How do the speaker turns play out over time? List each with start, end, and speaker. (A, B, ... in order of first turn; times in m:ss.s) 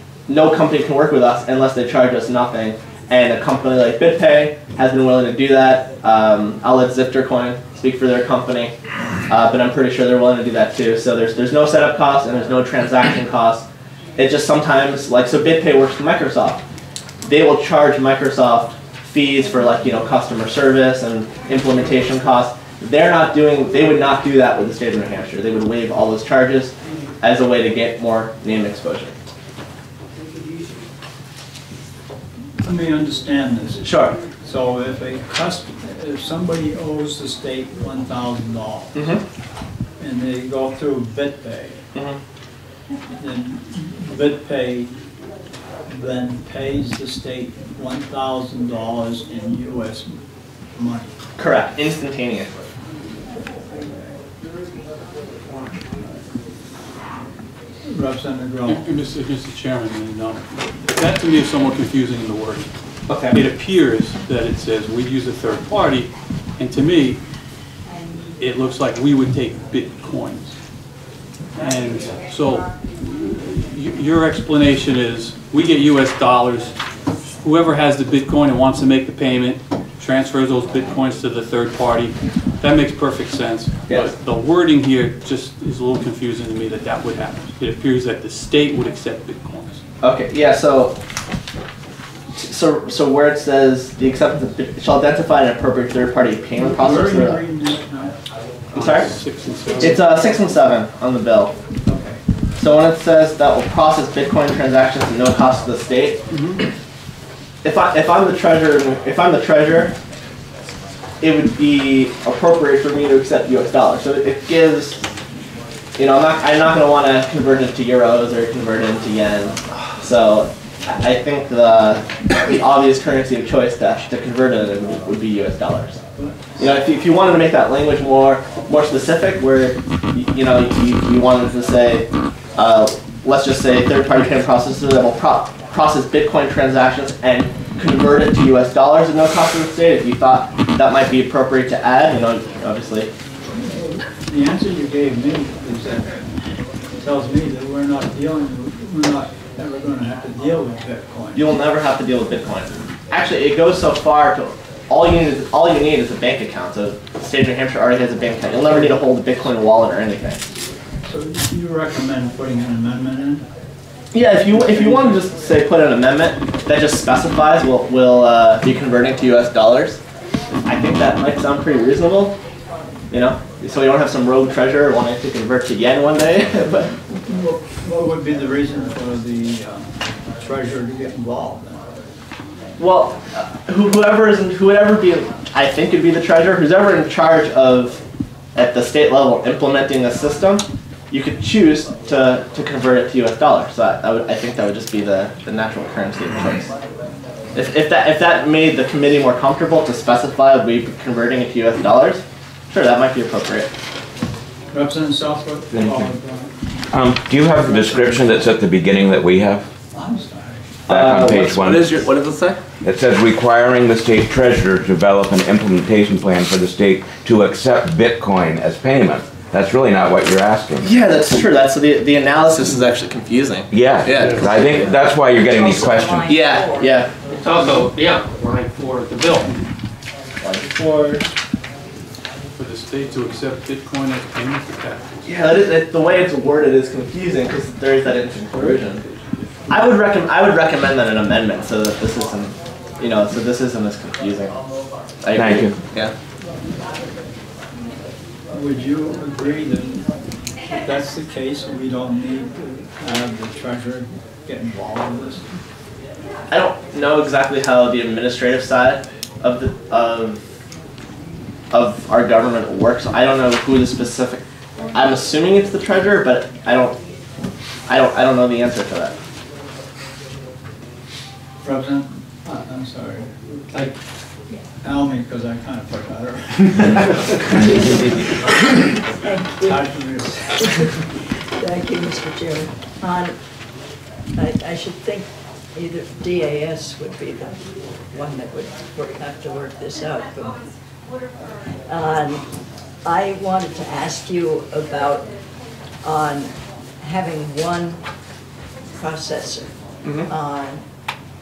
0:00.3-0:08.8 A
0:09.3-0:13.7 A
0:14.2-0:16.6 A
0:17.3-0:29.2 A
0:32.6-0:39.2 B
0:33.8-0:34.2 A
0:39.0-0:39.2 A
0:40.0-0:41.8 B
0:41.9-0:42.2 A
0:43.2-0:44.9 B
0:45.9-0:50.2 B
0:50.8-0:51.1 B
0:51.4-0:52.5 A
0:57.9-0:58.8 B
0:58.7-1:02.7 C
1:03.1-1:03.4 A
1:03.3-1:07.2 C
1:08.4-1:10.6 C
1:11.6-1:12.7 C
1:13.7-1:16.7 C
1:17.4-1:29.8 C
1:23.9-1:24.1 A
1:30.0-1:31.0 A
1:32.3-1:37.4 A
1:36.6-1:38.2 B
1:38.7-1:39.1 A
1:38.8-1:40.1 C
1:39.8-1:41.5 A
1:41.9-1:42.2 B
1:42.6-1:46.2 A
1:47.6-1:50.0 A
1:51.2-1:55.0 A
1:56.0-2:06.0 A
2:06.2-2:06.6 B
2:06.6-2:23.1 A
2:23.6-2:26.2 B
2:27.0-2:31.5 B
2:31.4-2:40.5 A
2:41.1-2:43.4 B
2:44.1-2:50.0 A
2:44.5-2:45.2 B
2:50.6-2:52.4 A
2:53.1-2:57.0 A
2:57.3-3:01.8 B
3:02.8-3:08.0 A
3:08.6-3:16.7 A
3:17.5-3:23.7 A
3:24.7-3:26.5 B
3:25.7-3:26.1 D
3:26.9-3:29.7 D
3:27.5-3:28.4 B
3:29.9-3:30.6 B
3:30.9-3:32.1 D
3:30.9-3:32.6 A
3:32.8-3:40.9 D
3:40.8-3:44.9 A
3:43.7-3:46.4 D
3:44.4-3:47.0 E
3:46.2-3:47.1 A
3:47.3-3:49.5 F
3:50.4-3:51.3 A
3:52.6-3:55.1 C
3:55.2-3:59.0 A
3:59.7-4:04.6 A
4:05.2-4:06.1 A
4:05.3-4:05.8 D
4:08.5-4:10.1 B
4:10.8-4:15.5 B
4:16.5-4:20.4 A
4:21.7-4:24.4 A
4:24.9-4:27.0 A
4:27.9-4:29.2 A
4:31.6-4:33.9 B
4:34.8-4:38.0 B
4:39.2-4:39.9 E
4:39.6-4:40.7 B
4:41.6-4:43.4 E
4:44.4-4:47.6 E
4:48.1-4:50.6 E
4:51.9-4:52.5 E
4:53.0-4:55.3 E
4:56.0-4:58.0 E
4:58.9-4:59.8 E
5:00.0-5:00.3 A
5:00.3-5:00.8 E